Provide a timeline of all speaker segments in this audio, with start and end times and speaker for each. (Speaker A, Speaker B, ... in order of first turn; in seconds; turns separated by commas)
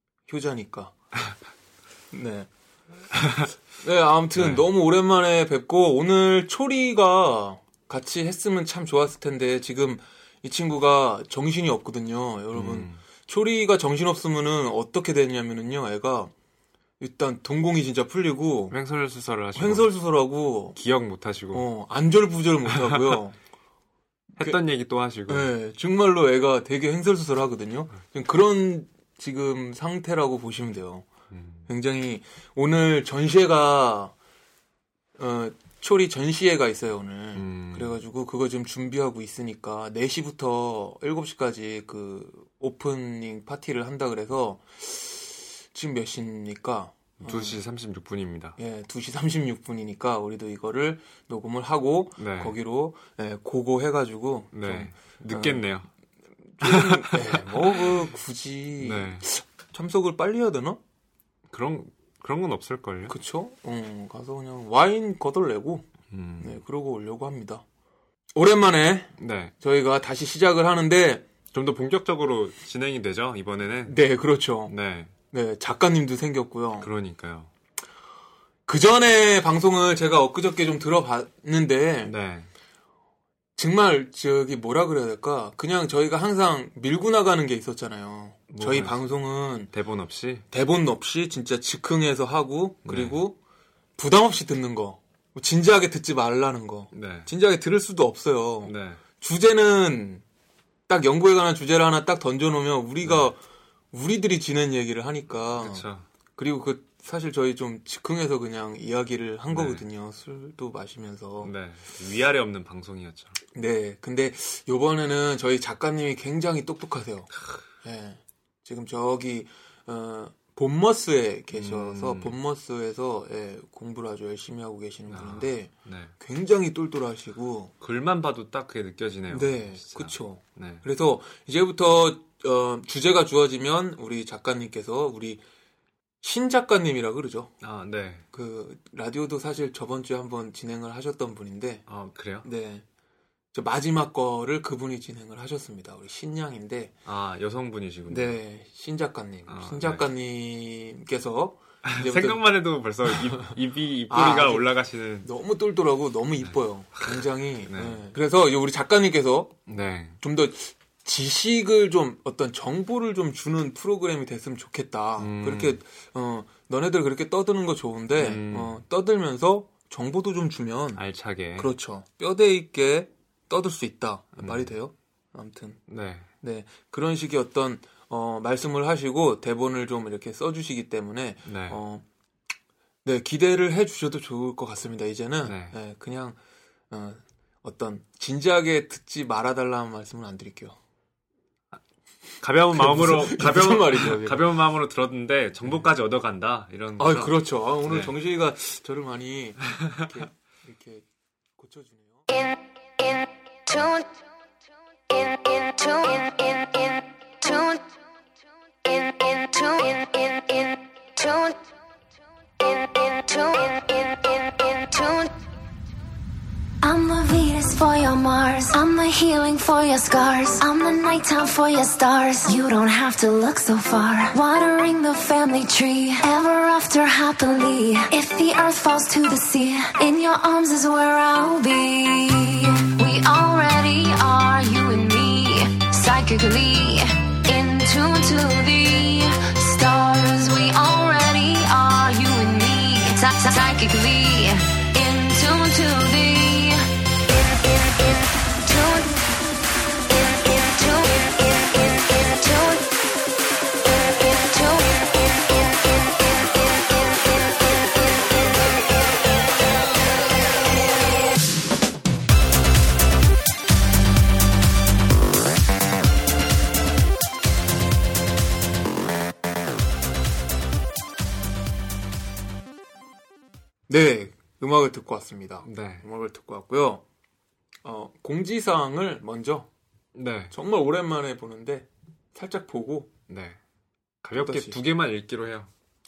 Speaker A: 0.3-0.9, Speaker A: 2.1-2.5, Speaker B: 3.1-3.5, Speaker A: 3.8-16.3, Speaker B: 4.3-4.7, Speaker B: 12.5-13.0, Speaker A: 17.0-18.8, Speaker B: 18.7-19.9, Speaker A: 19.6-20.8, Speaker B: 20.8-21.7, Speaker A: 21.5-23.4, Speaker B: 22.8-23.2, Speaker B: 24.4-25.5, Speaker A: 25.3-31.1, Speaker B: 31.3-31.7, Speaker A: 31.7-34.1, Speaker A: 35.2-47.6, Speaker B: 37.3-38.0, Speaker B: 47.2-48.6, Speaker A: 48.6-55.6, Speaker B: 52.2-52.6, Speaker B: 54.5-55.9, Speaker A: 56.6-60.8, Speaker B: 56.6-58.1, Speaker B: 58.8-59.3, Speaker B: 61.5-63.1, Speaker A: 63.1-65.9, Speaker B: 66.1-66.6, Speaker A: 66.4-67.6, Speaker A: 68.3-71.3, Speaker B: 69.2-69.5, Speaker B: 71.5-74.0, Speaker A: 73.9-74.7, Speaker B: 74.7-75.1, Speaker A: 75.3-76.9, Speaker B: 76.8-77.5, Speaker A: 78.7-82.1, Speaker B: 82.0-82.5, Speaker A: 83.6-89.7, Speaker B: 88.5-89.1, Speaker B: 89.7-90.5, Speaker A: 90.5-93.4, Speaker B: 92.8-93.2, Speaker A: 94.0-100.2, Speaker B: 96.9-97.3, Speaker B: 98.6-99.0, Speaker A: 100.9-103.4, Speaker B: 103.0-103.3, Speaker A: 103.9-111.5, Speaker B: 105.6-106.1, Speaker B: 109.5-109.8, Speaker B: 111.4-113.4, Speaker A: 113.5-117.3, Speaker A: 117.8-127.7, Speaker B: 121.5-122.4, Speaker B: 125.1-126.1, Speaker B: 127.8-130.8, Speaker A: 129.3-135.4, Speaker A: 136.2-137.5, Speaker B: 137.6-138.3, Speaker A: 138.3-141.9, Speaker B: 141.9-142.5, Speaker A: 142.4-142.8, Speaker A: 143.5-146.9, Speaker B: 147.1-148.4, Speaker A: 148.1-152.5, Speaker B: 149.5-150.1, Speaker B: 151.8-155.3, Speaker A: 153.2-153.5, Speaker A: 154.1-159.6, Speaker B: 156.4-158.1, Speaker B: 159.7-160.2, Speaker A: 160.2-171.0, Speaker B: 165.2-165.8, Speaker B: 168.2-168.8, Speaker B: 171.0-171.7, Speaker A: 171.6-175.8, Speaker B: 174.4-174.7, Speaker B: 175.9-176.3, Speaker A: 176.4-182.1, Speaker B: 181.5-181.8, Speaker A: 183.1-186.4, Speaker B: 185.4-185.8, Speaker A: 186.9-190.8, Speaker B: 192.4-198.1, Speaker A: 192.8-194.5, Speaker A: 197.0-201.1, Speaker A: 201.6-202.3, Speaker C: 203.7-204.1, Speaker C: 205.1-207.9, Speaker C: 208.8-211.6, Speaker C: 212.6-215.3, Speaker C: 216.8-246.9, Speaker C: 247.7-248.1, Speaker C: 248.6-249.2, Speaker C: 250.2-252.9, Speaker C: 253.9-255.4, Speaker A: 273.9-277.0, Speaker B: 275.6-276.1, Speaker A: 277.8-279.7, Speaker B: 280.1-280.5, Speaker A: 280.5-283.1, Speaker B: 283.3-283.6, Speaker B: 284.2-285.7, Speaker A: 284.4-284.8